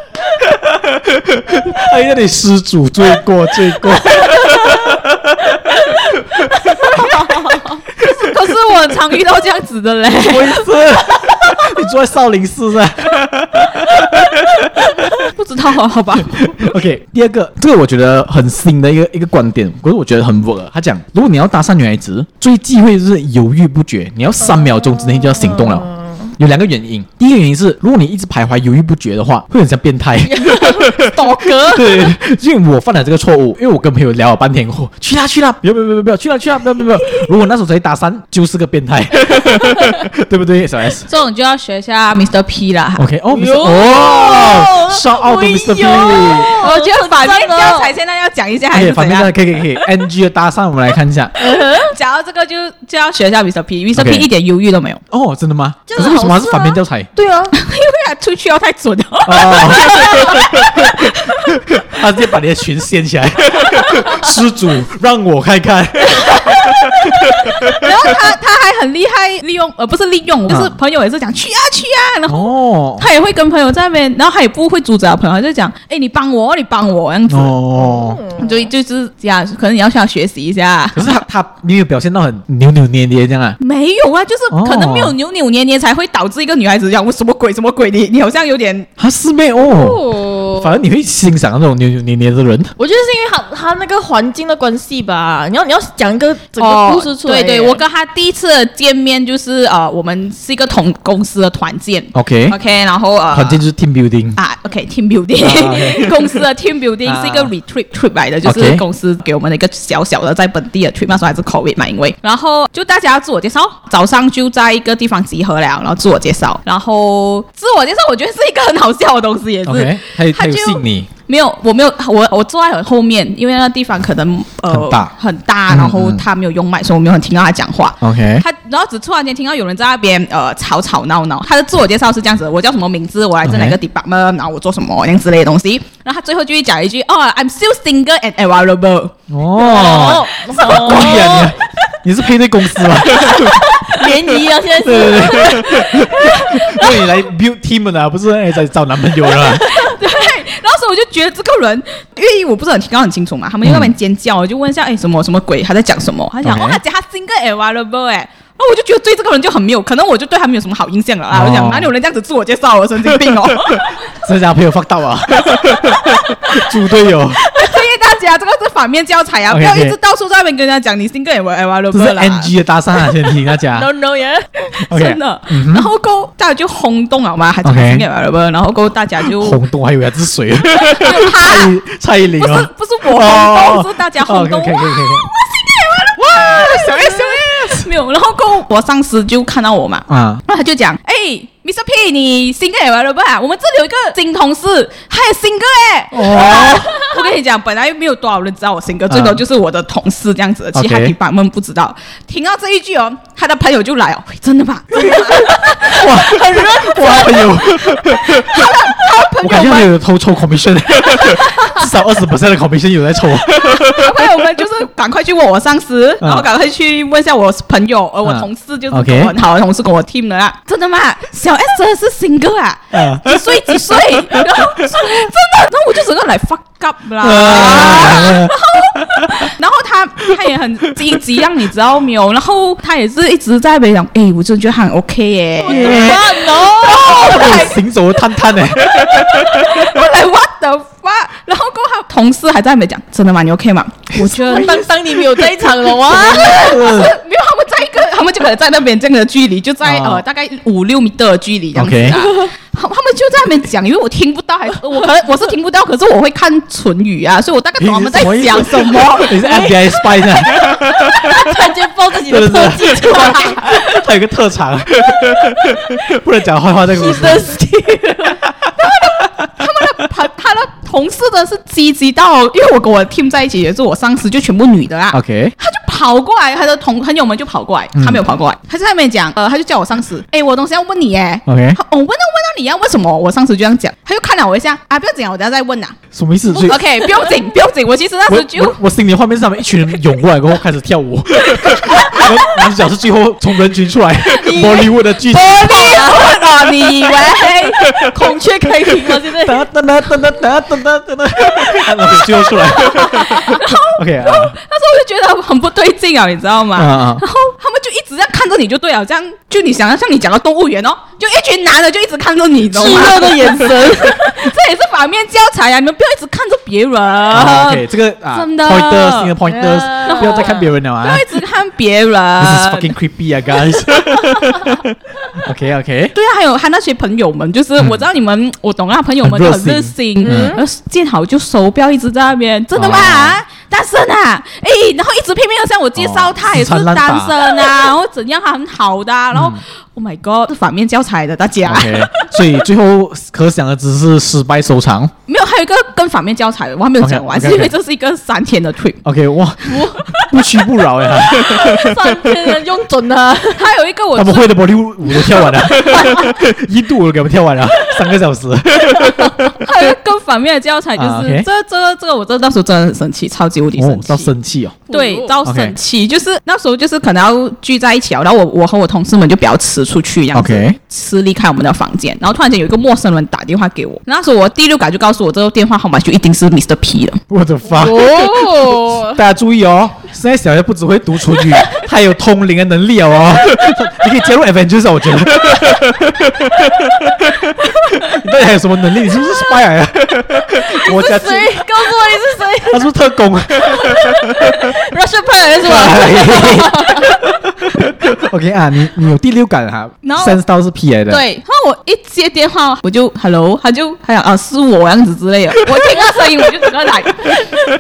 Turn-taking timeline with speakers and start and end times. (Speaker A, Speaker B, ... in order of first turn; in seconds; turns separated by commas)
Speaker A: 0.4-8.3, Speaker B: 3.8-5.0, Speaker B: 5.8-7.6, Speaker C: 7.8-10.6, Speaker A: 10.2-15.1, Speaker C: 15.2-16.7, Speaker A: 16.2-41.1, Speaker B: 24.5-26.3, Speaker B: 30.2-32.2, Speaker B: 39.3-40.0, Speaker C: 41.1-43.0, Speaker A: 43.0-46.5, Speaker B: 43.3-48.0, Speaker C: 46.2-49.3, Speaker A: 48.7-51.3, Speaker B: 51.4-52.0, Speaker C: 51.8-55.0, Speaker A: 53.9-54.3, Speaker A: 55.1-57.1, Speaker B: 55.9-57.5, Speaker C: 57.5-61.8, Speaker A: 59.2-68.1, Speaker B: 59.9-60.4, Speaker C: 66.7-77.5, Speaker A: 72.3-73.0, Speaker A: 77.3-78.2, Speaker B: 77.8-78.7, Speaker C: 78.3-81.1, Speaker A: 80.9-83.6, Speaker C: 83.6-88.9, Speaker A: 84.5-85.2, Speaker A: 89.0-92.7, Speaker B: 89.6-90.7, Speaker B: 92.8-97.8, Speaker C: 96.6-103.6, Speaker A: 102.1-102.6, Speaker A: 103.3-104.4, Speaker C: 104.4-139.1, Speaker A: 105.4-106.1, Speaker A: 107.0-107.5, Speaker A: 108.4-108.8, Speaker A: 119.6-121.1, Speaker A: 124.7-125.1, Speaker A: 125.7-126.2, Speaker A: 128.0-128.4, Speaker A: 133.4-133.8, Speaker A: 139.3-143.7, Speaker B: 139.5-141.5, Speaker C: 139.8-140.5, Speaker B: 143.0-147.2, Speaker A: 144.8-149.7, Speaker B: 149.3-150.0, Speaker C: 149.5-164.0, Speaker A: 153.6-153.9, Speaker A: 156.4-156.8, Speaker A: 161.3-161.9, Speaker A: 163.7-167.4, Speaker C: 167.5-172.5, Speaker B: 167.5-167.8, Speaker A: 169.5-170.0, Speaker A: 171.9-173.9, Speaker B: 173.6-174.6, Speaker C: 174.7-179.6, Speaker A: 174.9-175.9, Speaker A: 177.6-178.1, Speaker A: 179.3-185.3, Speaker C: 180.7-181.7, Speaker C: 182.3-209.9, Speaker A: 186.1-187.9, Speaker A: 190.1-190.4, Speaker A: 196.1-197.0, Speaker A: 199.1-199.4, Speaker A: 200.7-201.1, Speaker A: 204.9-214.2, Speaker C: 211.0-211.8, Speaker C: 213.5-237.8, Speaker A: 216.2-216.5, Speaker A: 218.2-219.3, Speaker A: 222.9-223.3, Speaker A: 224.3-224.8, Speaker A: 227.2-229.5, Speaker B: 235.6-237.7, Speaker A: 235.7-239.8, Speaker C: 238.7-244.9, Speaker B: 244.2-246.8, Speaker C: 246.1-259.7, Speaker A: 246.1-247.1, Speaker A: 249.8-250.2, Speaker A: 251.8-252.2, Speaker A: 257.8-261.5, Speaker B: 259.4-264.0, Speaker A: 262.2-267.5, Speaker C: 263.0-263.6, Speaker B: 265.1-266.1, Speaker B: 266.9-268.4, Speaker A: 268.5-269.2, Speaker C: 268.8-286.0, Speaker A: 275.1-275.5, Speaker A: 277.9-278.2, Speaker A: 281.4-281.8, Speaker A: 286.1-286.8, Speaker B: 286.5-287.4, Speaker C: 286.6-288.8, Speaker A: 288.3-296.0, Speaker B: 291.6-292.3, Speaker B: 294.2-300.3, Speaker C: 295.3-297.9, Speaker A: 299.1-304.6, Speaker B: 301.4-303.6, Speaker C: 302.9-319.4, Speaker A: 306.8-307.2, Speaker B: 312.7-314.5, Speaker A: 317.3-321.2, Speaker B: 319.4-320.7, Speaker C: 320.0-322.9, Speaker A: 322.4-326.1, Speaker C: 326.1-342.3, Speaker A: 329.2-330.6, Speaker B: 330.2-330.6, Speaker A: 332.8-333.4, Speaker A: 336.0-337.5, Speaker A: 339.3-339.6, Speaker A: 341.6-345.1, Speaker C: 345.3-349.0, Speaker A: 347.0-347.7, Speaker A: 349.0-351.9, Speaker B: 349.6-350.2, Speaker B: 351.1-353.7, Speaker C: 353.5-356.3, Speaker A: 354.1-359.7, Speaker B: 355.7-356.4, Speaker B: 358.9-359.4, Speaker C: 359.6-364.3, Speaker A: 360.9-361.5, Speaker A: 363.8-364.8, Speaker C: 364.9-377.2, Speaker B: 364.9-365.4, Speaker A: 365.4-365.8, Speaker A: 370.3-370.8, Speaker A: 377.3-391.7, Speaker B: 377.6-379.2, Speaker B: 390.5-393.0, Speaker A: 392.7-394.7, Speaker B: 393.5-397.2, Speaker A: 395.6-401.2, Speaker C: 400.0-400.4, Speaker C: 401.1-407.5, Speaker B: 407.3-407.6